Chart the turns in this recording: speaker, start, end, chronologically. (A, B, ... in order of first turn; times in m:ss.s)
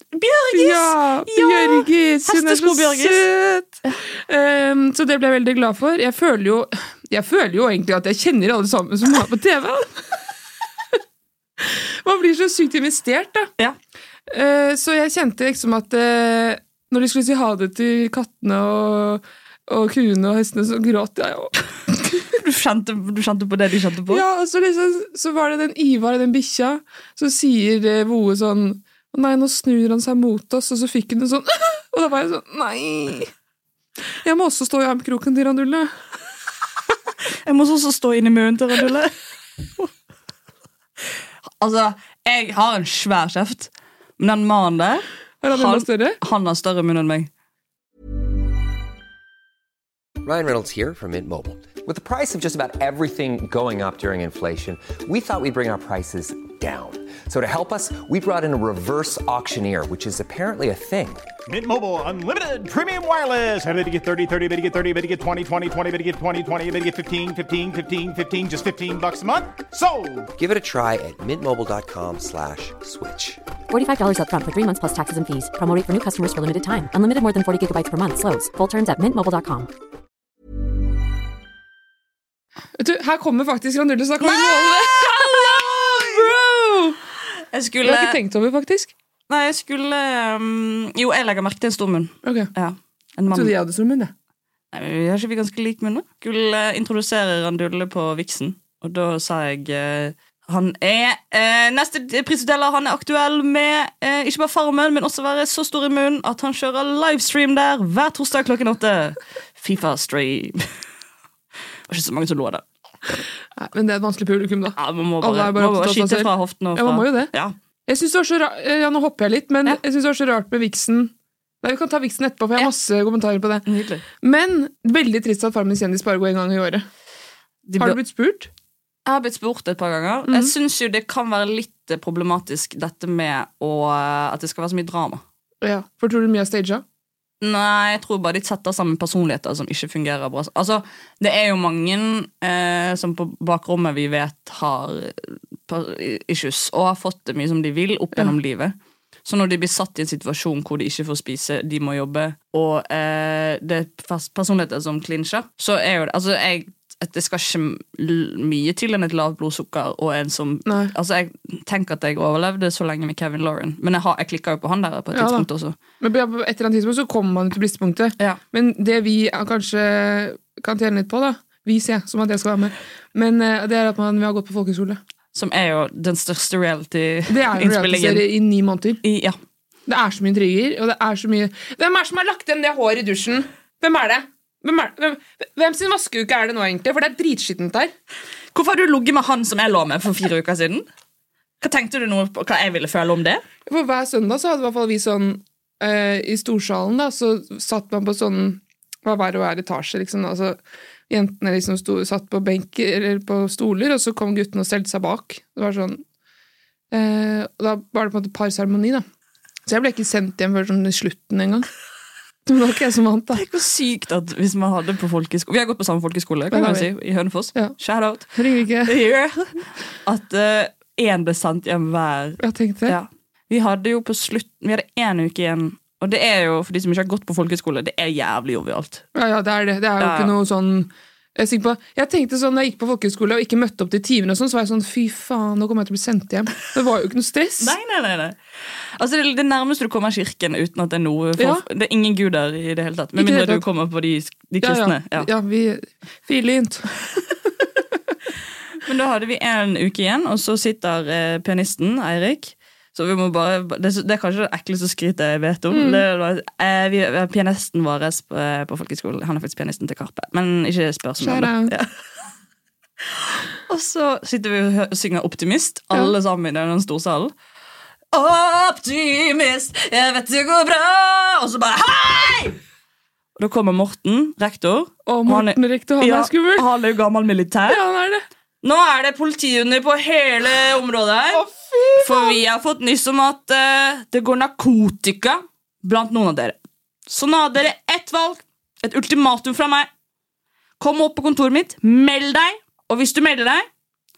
0:00.1-0:03.2 A
0:00.5-0:10.0 B
0:11.6-0:13.5 B
0:14.3-0:21.6 B
0:22.3-0:24.2 A
0:24.1-0:33.3 B
0:34.2-0:35.9 B
0:37.5-0:39.1 A
0:41.6-0:47.3 A
0:45.4-0:46.2 B
0:50.2-1:01.3 C
1:01.5-1:10.3 D
1:10.4-1:13.4 C
1:13.7-1:19.7 E
1:22.8-1:27.0 B
1:24.2-1:26.2 A
1:27.5-1:28.2 A
1:27.8-1:28.9 B
1:29.3-1:33.5 A
1:32.2-1:32.5 B
1:33.3-1:34.1 B
1:34.7-1:50.7 A
1:51.9-1:52.6 A
1:53.6-1:57.3 B
1:54.8-1:57.5 A
1:57.9-2:03.6 B
2:03.7-2:04.0 A
2:04.2-2:06.8 B
2:07.7-2:08.0 A
2:07.8-2:08.5 B
2:09.1-2:15.2 A
2:10.3-2:10.5 B
2:15.6-2:16.8 B
2:17.4-2:28.8 A
2:29.3-2:45.8 A
2:40.7-2:40.9 B
2:45.1-2:45.5 B
2:46.0-2:55.0 B
2:55.3-2:58.3 A
2:57.3-2:59.0 B
2:59.0-2:59.4 A
2:59.9-3:07.9 B
3:08.5-3:10.9 A
3:11.6-3:13.4 A
3:13.7-3:26.0 B
3:26.9-3:29.0 B
3:29.7-3:31.7 B
3:32.5-3:33.4 B
3:33.3-3:49.0 A
3:36.5-3:36.9 B
3:38.3-3:39.0 B
3:42.4-3:43.0 B
3:49.2-3:57.8 B
3:50.0-3:50.3 A
3:57.6-3:58.4 A
3:59.0-4:05.3 A
4:01.4-4:01.6 B
4:03.2-4:03.6 B
4:04.6-4:06.9 B
4:08.8-4:21.9 A
4:15.7-4:16.0 B
4:21.2-4:21.7 B
4:23.1-4:27.3 A
4:28.1-4:32.6 A
4:33.4-4:37.8 A
4:35.1-4:36.7 B
4:37.7-4:38.2 B
4:38.6-4:41.4 A
4:41.3-4:42.4 B
4:42.0-4:46.6 A
4:47.1-4:49.9 A
4:50.8-4:53.7 A